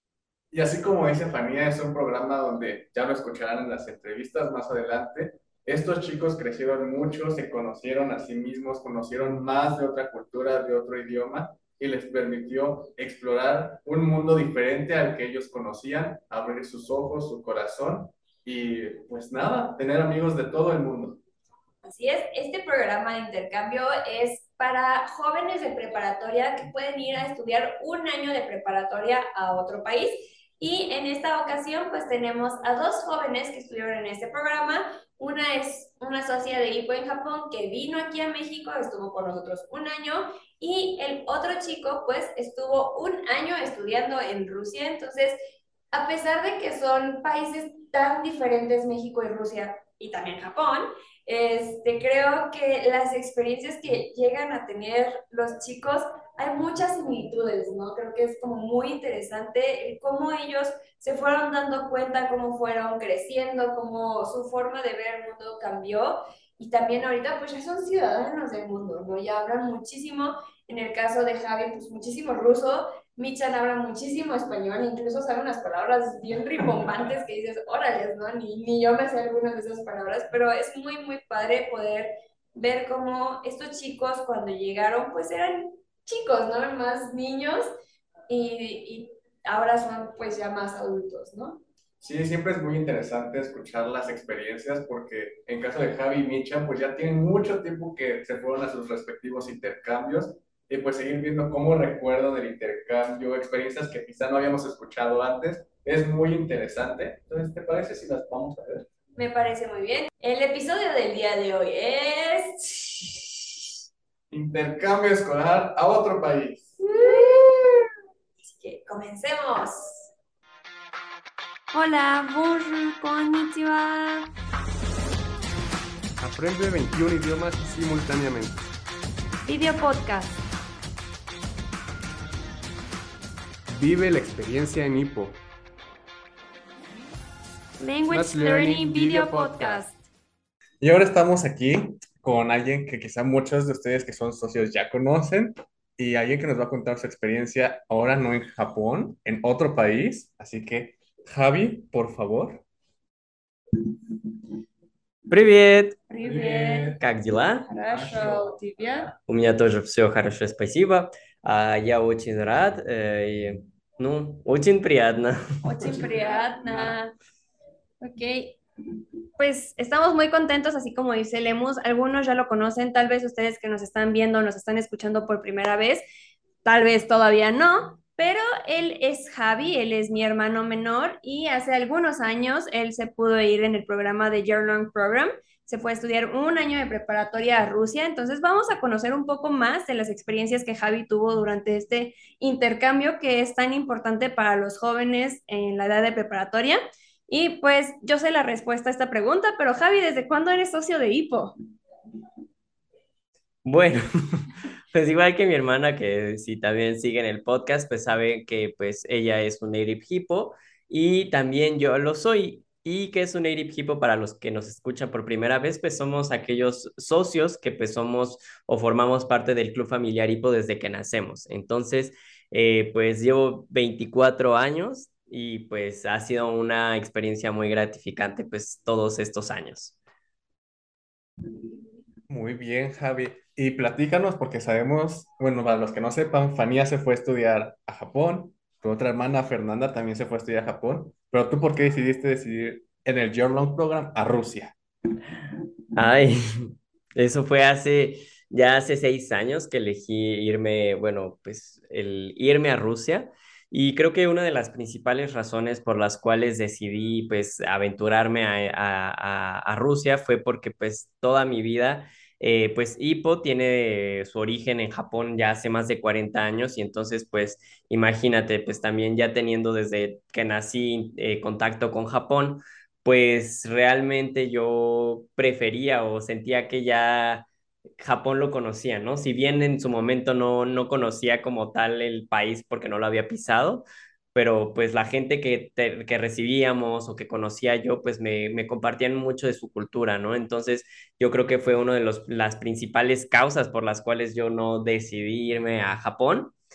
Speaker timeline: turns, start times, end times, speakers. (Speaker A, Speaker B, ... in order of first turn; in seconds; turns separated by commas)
Speaker A: 0.5-21.2, Speaker B: 21.8-45.4, Speaker B: 45.9-87.7, Speaker B: 88.3-91.6, Speaker A: 92.0-108.9, Speaker B: 109.1-113.3, Speaker A: 114.3-116.8, Speaker B: 116.8-117.9, Speaker B: 118.4-120.1, Speaker B: 121.7-124.3, Speaker A: 126.2-128.6, Speaker B: 129.4-130.4, Speaker A: 133.7-135.4, Speaker B: 137.8-140.0, Speaker A: 138.1-139.8, Speaker A: 140.8-152.6, Speaker C: 155.3-156.0, Speaker B: 156.1-157.0, Speaker A: 156.2-157.0, Speaker C: 157.0-157.7, Speaker B: 157.7-159.1, Speaker A: 157.9-159.1, Speaker C: 159.2-165.4, Speaker B: 165.6-167.1, Speaker A: 165.8-166.9, Speaker B: 168.0-168.6, Speaker B: 169.4-176.0, Speaker B: 176.6-201.6, Speaker C: 203.6-229.9, Speaker A: 232.3-244.7, Speaker C: 245.9-277.5, Speaker C: 278.0-296.5